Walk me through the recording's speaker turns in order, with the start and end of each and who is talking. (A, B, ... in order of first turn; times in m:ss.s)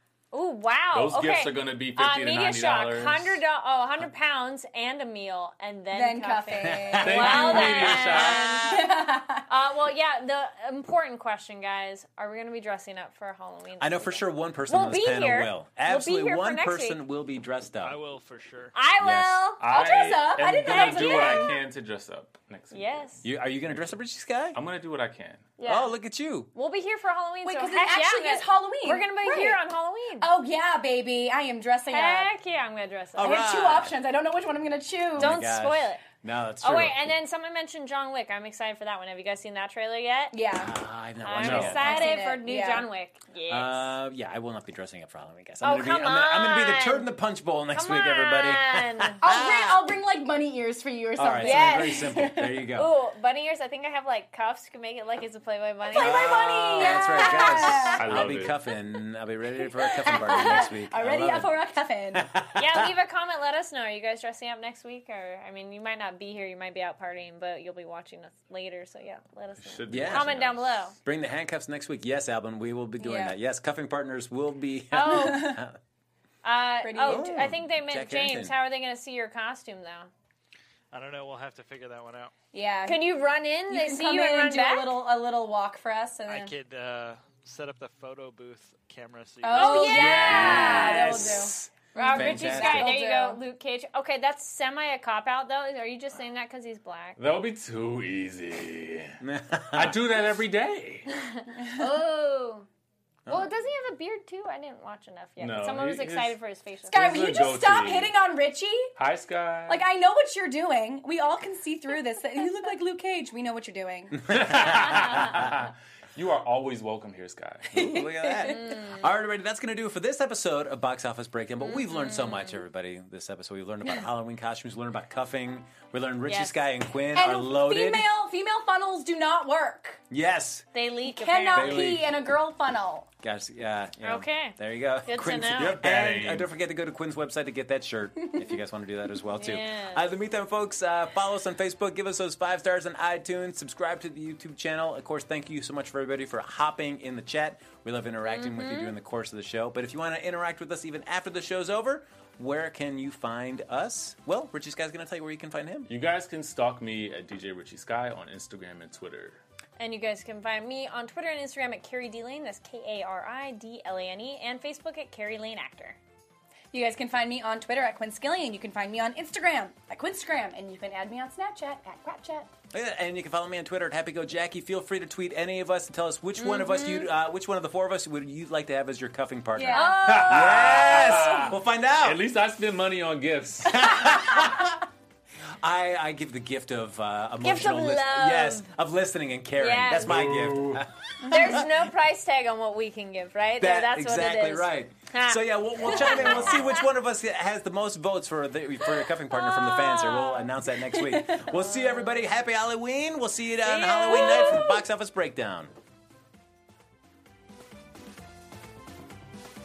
0:00.3-0:17.0 A
0:00.9-0:03.4 B
0:05.9-0:09.5 C
0:06.6-0:08.5 D
0:07.0-0:08.8 B
0:13.8-0:18.0 D
0:17.8-0:18.8 E
0:18.7-0:20.1 A
0:19.0-0:19.5 D
0:19.6-0:23.2 B
0:19.7-0:21.6 C
0:20.6-0:21.6 A
0:22.7-0:23.2 A
0:23.2-0:24.6 D
0:24.5-0:25.6 B
0:25.6-0:25.9 A
0:25.6-0:26.5 D
0:26.5-0:30.3 A
0:27.4-0:29.6 C
0:30.2-0:32.3 C
0:31.9-0:33.4 A
0:33.2-0:34.0 D
0:33.2-0:35.4 C
0:35.2-0:36.0 A
0:35.2-0:37.0 D
0:36.6-0:40.4 A
0:40.3-0:40.8 C
0:40.6-0:42.2 D
0:41.2-0:43.9 A
0:41.4-0:41.8 B
0:41.5-0:42.9 C
0:43.5-0:49.8 D
0:45.6-0:47.1 A
0:47.7-0:49.3 A
0:49.2-0:52.6 C
0:51.2-0:52.9 D
0:51.4-0:52.1 A
0:52.7-0:58.0 A
0:55.9-0:58.3 C
0:56.0-1:01.6 D
0:58.0-0:58.6 B
1:00.0-1:00.7 A
1:00.1-1:02.3 C
1:02.2-1:02.9 D
1:02.6-1:11.0 A
1:09.6-1:10.7 B
1:09.9-1:10.4 D
1:11.0-1:15.8 D
1:13.0-1:13.4 C
1:14.9-1:15.6 A
1:15.1-1:15.6 C
1:16.4-1:20.1 A
1:16.8-1:17.5 C
1:17.1-1:18.6 D
1:20.9-1:22.3 E
1:22.5-1:23.0 C
1:22.9-1:25.0 A
1:23.7-1:26.5 C
1:26.3-1:30.1 E
1:29.4-1:33.4 C
1:29.5-1:37.2 A
1:29.9-1:32.9 D
1:30.4-1:30.8 B
1:37.2-1:39.2 B
1:39.2-1:40.0 D
1:39.7-1:41.1 B
1:41.1-1:42.7 A
1:41.6-1:41.9 C
1:43.3-1:47.0 A
1:45.4-1:46.3 B
1:46.9-1:48.9 C
1:46.9-1:48.1 B
1:49.0-1:49.8 B
1:49.7-1:54.8 C
1:54.3-1:55.3 D
1:54.3-1:57.7 B
1:57.7-2:08.1 D
1:57.7-1:58.8 C
1:58.4-1:59.0 A
2:01.6-2:02.6 A
2:06.3-2:06.6 A
2:07.1-2:10.0 C
2:10.1-2:10.7 D
2:10.7-2:11.9 A
2:11.0-2:13.1 C
2:11.5-2:12.1 D
2:13.2-2:35.9 D
2:14.0-2:15.8 A
2:15.5-2:16.5 B
2:19.3-2:20.1 A
2:28.2-2:29.0 A
2:35.9-2:39.4 B
2:39.8-2:46.0 A
2:46.7-2:52.5 C
2:52.7-3:02.2 D
2:56.4-2:57.1 A
2:59.6-3:00.3 C
2:59.7-3:00.8 A
3:00.0-3:03.9 B
3:03.7-3:04.8 C
3:03.7-3:04.8 D
3:05.6-3:11.8 D
3:07.4-3:08.7 A
3:09.6-3:10.2 A
3:10.0-3:10.8 B
3:11.2-3:11.7 C
3:11.2-3:16.8 A
3:13.6-3:25.7 D
3:19.3-3:20.5 A
3:20.9-3:21.4 C
3:21.6-3:22.1 A
3:23.6-3:24.8 A